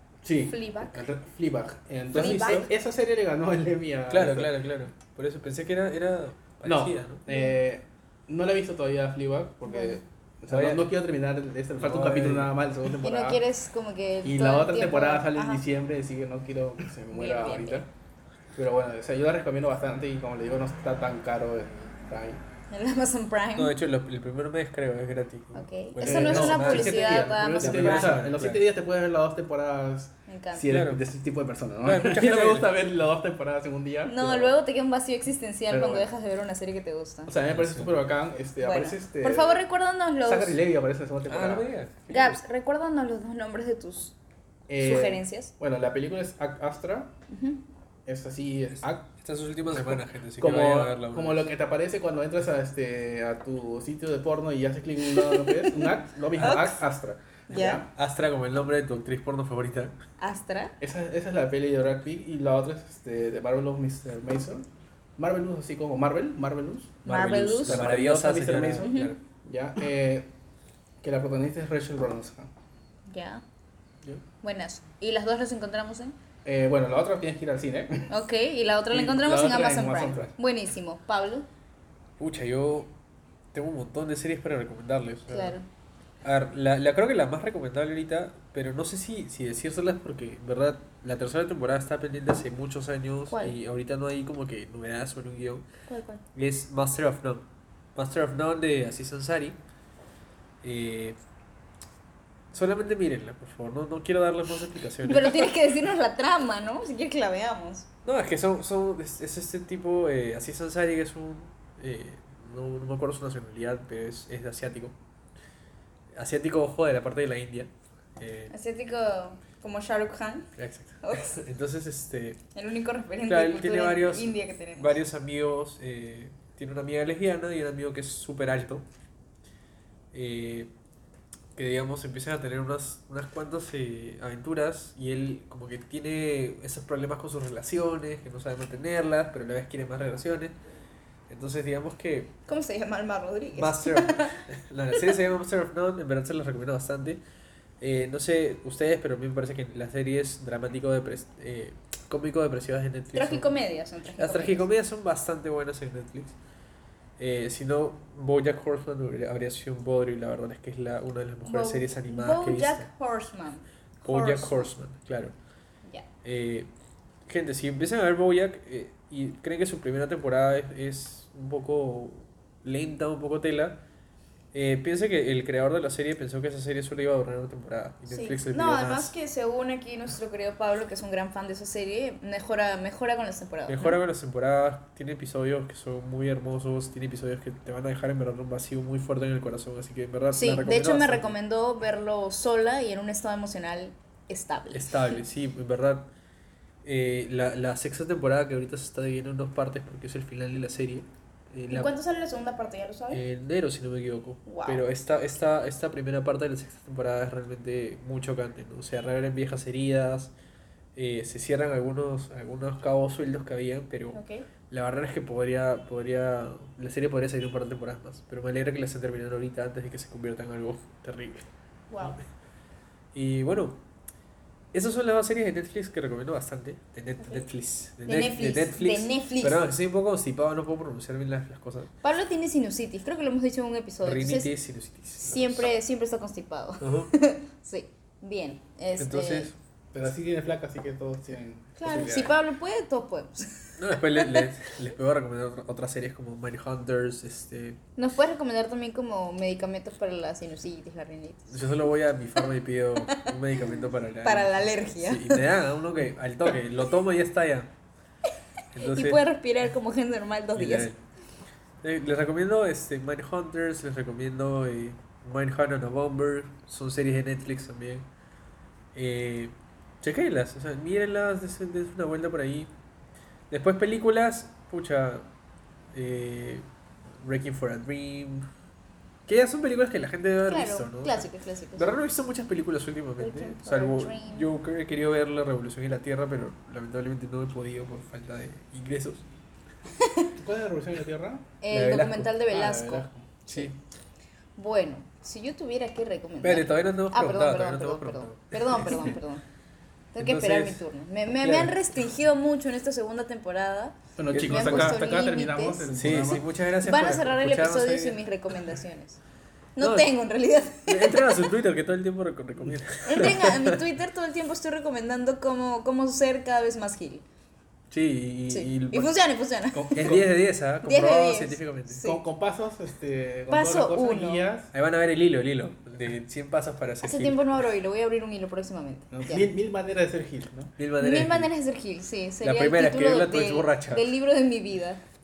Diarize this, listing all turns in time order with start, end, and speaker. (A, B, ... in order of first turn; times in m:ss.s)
0:00.2-0:04.5 A
0:00.4-0:01.0 B
0:02.1-0:02.7 B
0:02.1-0:02.7 C
0:04.1-0:07.2 C
0:06.6-0:13.4 A
0:07.3-0:07.5 B
0:09.7-0:10.0 B
0:10.5-0:10.9 C
0:11.8-0:12.5 C
0:13.0-0:15.6 B
0:14.2-0:17.9 A
0:17.1-0:17.8 B
0:18.6-0:22.4 A
0:22.7-0:23.7 B
0:23.6-0:28.6 C
0:25.6-0:28.2 B
0:26.0-0:34.6 A
0:30.3-0:30.6 B
0:30.7-0:31.0 C
0:31.8-0:32.7 C
0:34.1-0:37.3 B
0:35.7-0:36.1 A
0:37.3-0:39.6 A
0:37.5-0:38.1 C
0:38.6-0:40.6 B
0:40.2-0:41.7 A
0:41.3-0:42.4 C
0:42.1-0:44.1 B
0:44.7-0:47.1 A
0:44.8-0:45.5 B
0:47.3-0:47.6 B
0:48.1-0:49.1 A
0:48.7-0:51.4 C
0:49.6-0:57.9 A
0:55.0-0:56.8 B
0:56.3-0:56.7 C
0:57.5-0:57.8 B
0:58.0-1:00.0 C
1:00.2-1:00.7 B
1:00.8-1:04.7 A
1:05.2-1:10.3 A
1:07.0-1:09.2 C
1:07.1-1:07.8 B
1:08.8-1:09.1 B
1:11.0-1:12.5 A
1:13.1-1:13.4 B
1:14.4-1:16.1 B
1:16.4-1:18.1 A
1:18.1-1:21.5 B
1:18.9-1:20.3 A
1:22.2-1:22.9 C
1:23.5-1:25.6 C
1:25.3-1:25.7 B
1:26.2-1:35.7 C
1:33.3-1:33.6 B
1:35.9-1:36.2 B
1:36.4-1:39.6 C
1:40.6-1:41.2 C
1:42.5-1:45.5 C
1:45.0-1:47.9 B
1:48.0-1:55.0 C
1:56.1-1:58.5 C
1:58.5-2:00.5 B
2:00.6-2:02.4 C
2:01.0-2:01.4 B
2:02.6-2:05.0 B
2:03.3-2:08.9 C
2:10.1-2:10.7 C
2:11.6-2:20.6 C
2:21.3-2:22.4 C
2:22.5-2:24.4 B
2:23.6-2:27.2 C
2:27.8-2:33.5 C
2:33.1-2:34.7 B
2:34.2-2:36.4 C
2:37.2-2:42.9 C
2:41.4-2:44.7 B
2:44.0-2:45.3 C
2:46.2-2:46.7 C
2:47.3-2:53.8 C
2:54.5-2:59.1 C
2:58.1-3:04.0 B
3:03.7-3:11.4 C
3:10.3-3:15.2 B
3:14.7-3:16.1 C
3:16.8-3:21.9 C
3:21.7-3:23.2 B
3:23.1-3:30.3 C
3:24.5-3:24.8 B
3:31.0-3:41.5 C
3:34.1-3:34.5 B
3:41.9-3:42.2 B
3:43.1-3:43.8 C
3:44.7-3:51.9 C
3:48.1-3:49.6 B
3:52.0-3:54.5 B
3:54.0-3:55.7 C
3:55.2-3:59.5 B
3:56.8-3:57.1 C
3:59.0-3:59.6 C
3:59.9-4:02.4 A
4:01.8-4:04.5 B
4:03.8-4:07.8 C
4:08.0-4:11.5 B
4:11.5-4:17.7 C
4:14.2-4:15.4 B
4:18.7-4:19.2 C
4:18.8-4:20.9 B
4:20.6-4:21.0 C
4:21.8-4:28.1 C
4:28.9-4:32.7 C
4:33.5-4:35.3 C
4:35.9-4:36.7 C
4:37.2-4:38.5 C
4:39.3-4:49.2 C
4:40.5-4:41.9 B
4:43.2-4:44.5 B
4:50.0-4:50.3 B
4:50.4-4:51.5 A
4:51.6-4:53.7 B
4:51.7-4:52.3 C
4:52.5-4:53.4 A
4:54.6-4:59.4 B
4:56.4-4:59.1 C
5:00.1-5:05.9 B
5:00.2-5:01.8 C
5:04.2-5:06.5 A
5:04.3-5:05.0 C
5:05.9-5:08.2 C
5:06.8-5:09.2 B
5:09.8-5:11.4 B
5:09.8-5:10.1 C
5:10.9-5:13.8 C
5:13.0-5:17.2 B
5:17.9-5:19.1 C
5:18.5-5:20.2 B
5:19.7-5:20.3 A
5:20.0-5:22.0 C
5:20.8-5:22.2 B
5:22.0-5:24.7 A
5:23.5-5:24.5 B
5:24.7-5:27.6 C
5:27.0-5:29.5 B
5:29.1-5:30.7 A
5:30.8-5:31.5 C
5:31.0-5:35.0 B
5:32.4-5:34.1 C